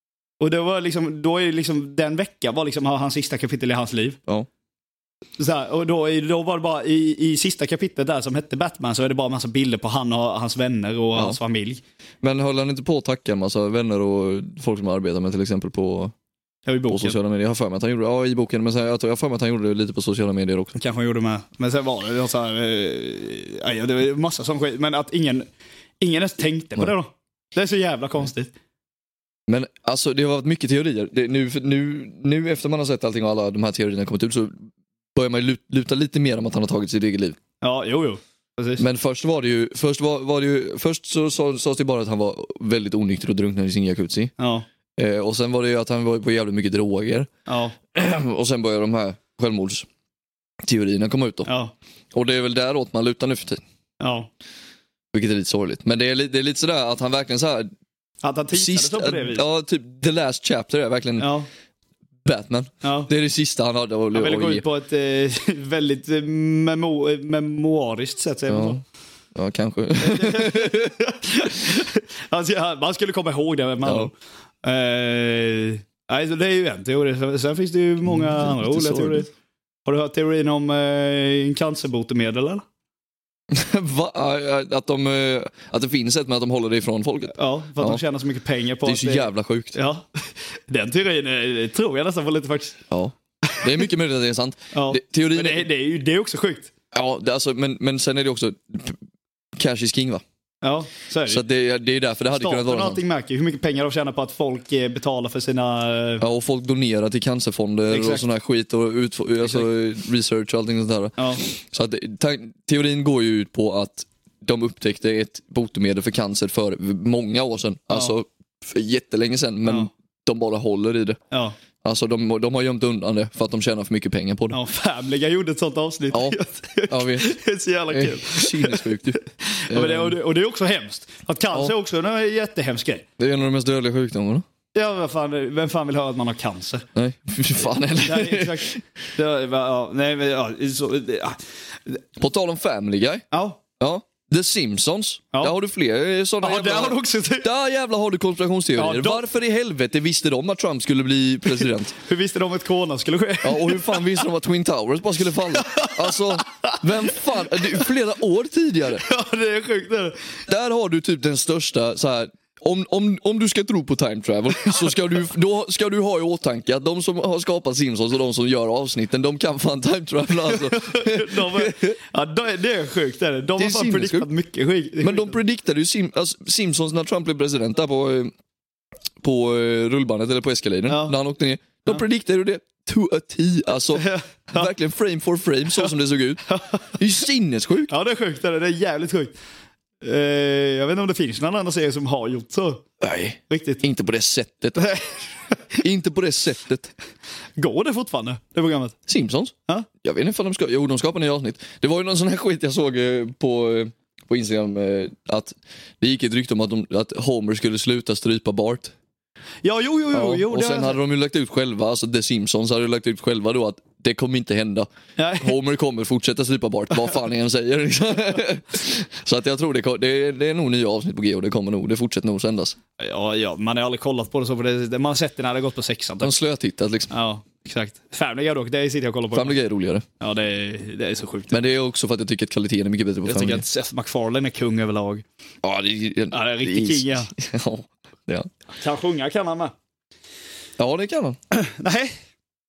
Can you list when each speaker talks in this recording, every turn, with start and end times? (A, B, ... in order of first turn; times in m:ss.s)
0:00.4-0:04.2 A
0:05.4-0:11.8 A
0:12.2-0:16.1 B
0:16.6-0:17.2 A
0:16.9-0:20.7 B
0:20.7-0:25.5 A
0:26.0-0:28.5 A
0:29.5-0:37.4 B
0:37.6-0:38.8 A
0:38.8-0:44.3 B
0:44.4-0:44.6 A
0:45.0-0:47.3 B
0:47.5-0:47.7 A
0:47.9-0:49.9 B
0:50.6-0:51.5 B
0:51.4-0:51.7 A
0:52.1-0:53.6 B
0:54.0-0:54.3 A
0:55.1-0:57.7 B
0:58.2-0:59.4 A
0:58.5-1:01.3 B
1:01.2-1:01.5 A
1:02.2-1:04.6 B
1:02.8-1:03.1 A
1:04.1-1:08.8 A
1:08.5-1:08.8 B
1:09.3-1:10.9 B
1:10.0-1:19.3 A
1:13.8-1:14.1 B
1:18.1-1:19.2 B
1:19.8-1:22.6 A
1:23.5-1:28.0 B
1:27.3-1:32.8 A
1:28.8-1:29.8 B
1:32.9-1:35.6 B
1:34.7-1:36.7 A
1:36.9-1:39.0 B
1:39.6-1:40.2 B
1:40.6-1:41.4 A
1:41.3-1:43.0 B
1:42.3-1:46.2 A
1:46.2-2:01.2 B
1:47.9-1:48.2 A
1:51.2-1:51.4 A
1:59.6-1:59.9 A
2:01.3-2:01.6 A
2:01.8-2:04.6 B
2:04.5-2:13.0 A
2:06.1-2:06.4 B
2:06.9-2:07.4 B
2:07.9-2:10.2 B
2:13.2-2:14.4 B
2:14.7-2:16.8 A
2:16.9-2:18.8 B
2:18.0-2:22.0 A
2:22.2-2:23.2 B
2:23.3-2:23.6 A
2:23.8-2:32.0 B
2:26.4-2:27.5 A
2:28.8-2:29.2 A
2:32.0-2:34.2 A
2:33.4-2:39.0 B
2:35.5-2:36.8 A
2:37.6-2:37.8 A
2:38.9-2:40.3 A
2:40.5-2:52.0 B
2:50.4-2:55.4 A
2:53.6-2:54.3 B
2:55.0-2:58.3 B
2:59.2-3:06.4 B
3:00.9-3:01.2 A
3:03.9-3:04.7 A
3:06.5-3:06.9 A
3:06.9-3:07.9 B
3:07.9-3:09.3 A
3:10.0-3:12.8 A
3:13.0-3:14.9 B
3:13.5-3:13.8 A
3:14.8-3:15.1 A
3:15.7-3:16.9 B
3:17.6-3:19.0 A
3:19.1-3:28.9 B
3:29.6-3:31.0 A
3:30.1-3:34.9 B
3:35.2-3:35.5 A
3:35.4-3:42.8 B
3:43.0-3:46.3 A
3:46.2-3:47.1 B
3:47.1-3:49.6 A
3:49.3-3:50.0 B
3:50.2-3:51.6 A
3:51.5-3:53.6 B
3:53.2-3:55.2 A
3:55.6-3:58.5 B
3:56.3-3:57.3 A
3:58.8-3:59.7 A
4:00.8-4:01.4 B
4:01.5-4:02.1 A